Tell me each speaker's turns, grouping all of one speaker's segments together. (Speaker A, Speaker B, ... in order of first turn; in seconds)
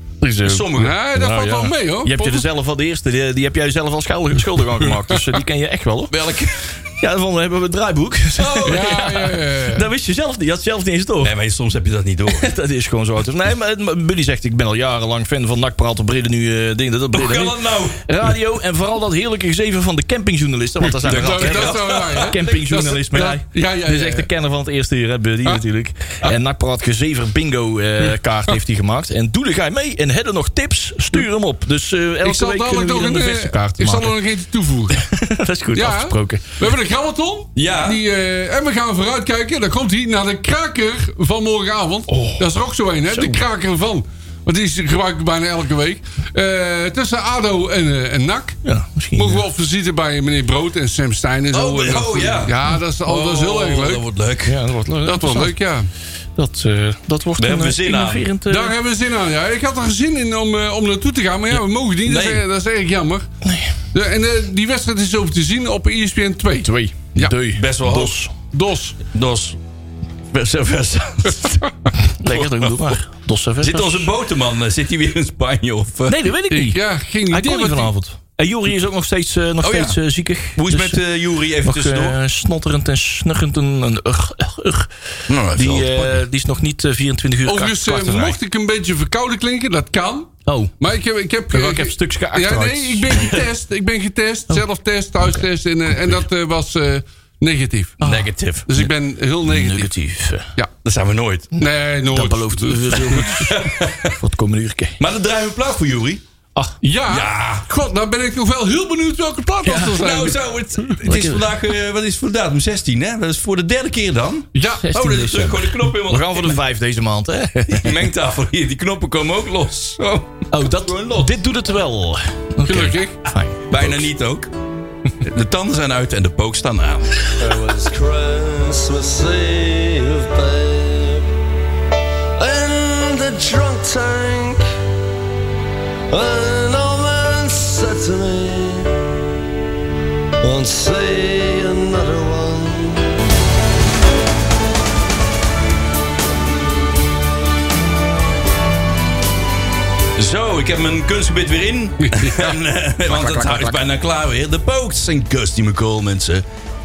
Speaker A: 0.2-6.1, 7.0-11.3, 12.3-34.1, 35.0-36.5, 42.1-42.4, 43.1-43.4, 48.6-49.4, 54.5-55.5, 56.4-58.7, 63.4-63.7, 66.6-68.3, 72.0-74.1, 76.1-76.8, 77.3-81.0, 81.6-84.9, 85.5-88.4, 90.5-90.7, 91.5-93.4, 98.0-98.9, 99.4-100.5, 102.1-105.0, 109.6-110.0, 111.0-111.5, 114.7-118.0, 120.5-124.0
Speaker B: 0.4-0.9, 6.1-6.7, 11.2-12.5, 17.1-18.0, 21.0-22.5, 37.5-38.0, 51.5-54.6, 57.4-58.2, 61.5-62.4, 67.5-68.2, 69.1-69.6, 70.3-71.7, 73.6-76.2, 79.6-80.0, 80.5-82.2, 85.3-86.2, 98.0-98.7, 100.8-101.6, 103.4-104.2, 105.0-106.2, 107.1-107.7, 109.8-116.6, 117.7-121.3, 123.7-124.5, 125.2-127.2, 150.1-156.4
Speaker C: 0.7-2.5, 4.8-5.3, 8.4-9.9, 20.9-24.3, 32.2-35.0, 35.7-48.6, 49.1-54.0, 55.0-55.9, 58.5-63.3, 63.9-67.4, 68.5-69.0, 76.5-77.9, 87.5-98.0, 98.7-99.9, 101.6-103.5, 106.8-111.0, 114.5-115.0, 122.6-123.2, 152.0-152.5
Speaker D: 127.4-131.3, 132.4-134.6, 136.1-139.0, 140.4-143.1